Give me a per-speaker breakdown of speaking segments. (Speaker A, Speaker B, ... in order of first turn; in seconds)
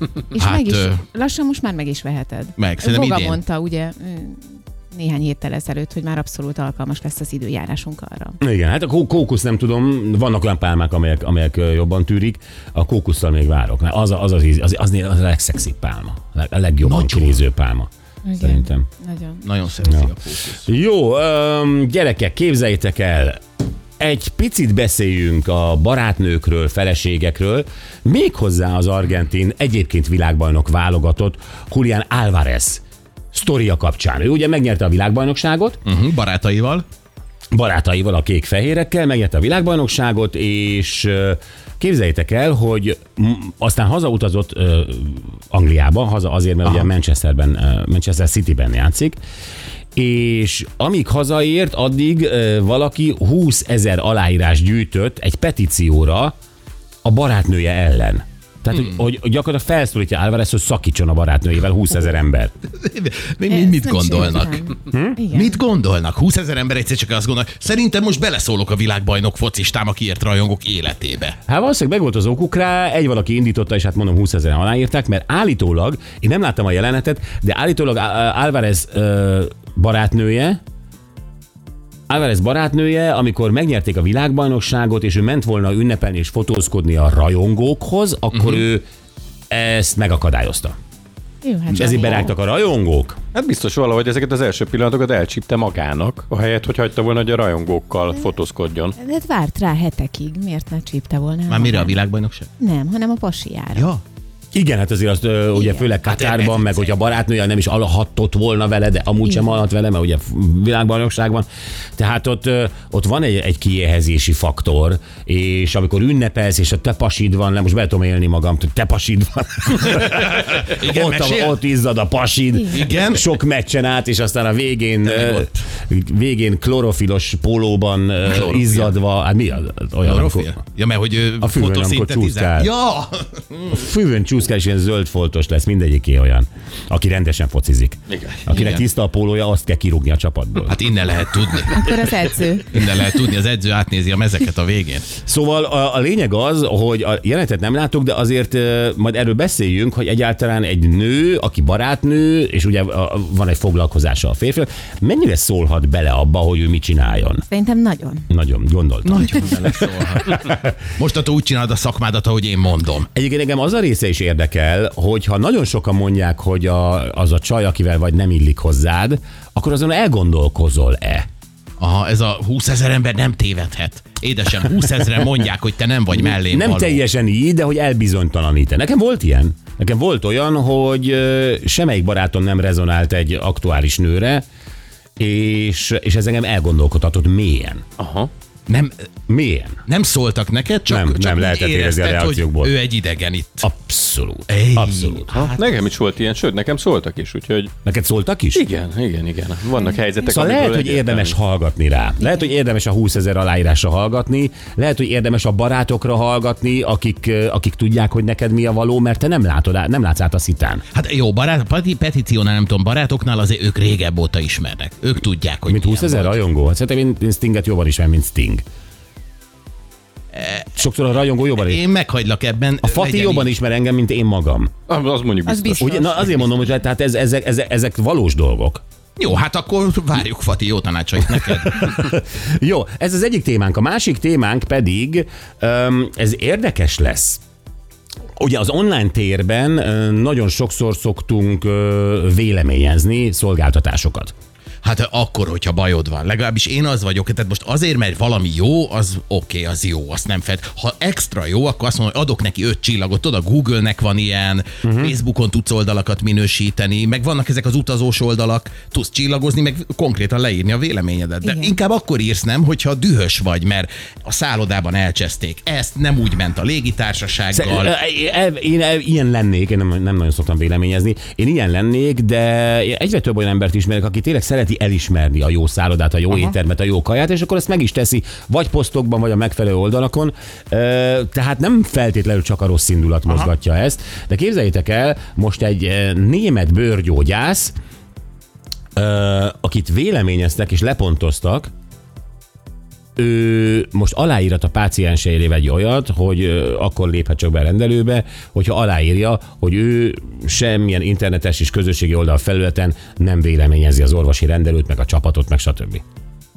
Speaker A: 0.3-8.4, 18.2-19.4, 63.5-65.6, 91.4-92.3, 99.0-102.0, 102.6-103.8, 105.6-105.8, 141.7-142.8, 157.5-158.3, 225.5-226.2, 261.4-261.8
Speaker B: 0.4-1.0, 2.6-3.4, 16.8-17.4, 19.4-20.6, 35.8-36.8, 62.7-64.6, 65.3-71.3, 88.3-88.6, 101.5-102.5, 103.7-104.0, 106.0-107.0, 120.0-121.6, 122.7-123.3, 125.0-125.5, 128.3-128.9, 130.0-133.8, 138.5-138.8, 140.7-145.1, 159.0-163.1, 171.8-177.0, 188.7-188.9, 189.9-193.7, 194.5-195.8, 210.9-216.4, 220.3-220.7, 221.6-223.5, 229.2-232.0, 244.8-267.9
Speaker C: 8.4-18.9, 20.6-23.4, 24.0-32.8, 33.3-35.8, 37.5-49.2, 50.0-56.3, 57.0-62.5, 64.9-65.2, 71.5-80.6, 82.1-88.9, 89.5-90.7, 91.7-93.2, 104.5-130.6, 131.4-132.7, 133.7-140.8, 145.2-157.4, 158.3-159.6, 160.2-160.5, 163.1-171.3, 176.1-184.4, 185.2-187.8, 189.3-189.8, 190.9-192.8, 193.6-195.5, 197.8-198.7, 200.2-210.8, 215.7-218.6, 220.8-221.8, 222.8-224.7, 225.8-228.8, 231.6-237.4, 238.4-244.3, 254.8-255.1, 267.5-287.7, 288.9-291.7, 293.2-306.0
Speaker D: 93.3-98.9, 138.1-138.4, 188.0-188.3, 195.6-197.7, 198.5-201.3, 224.9-226.1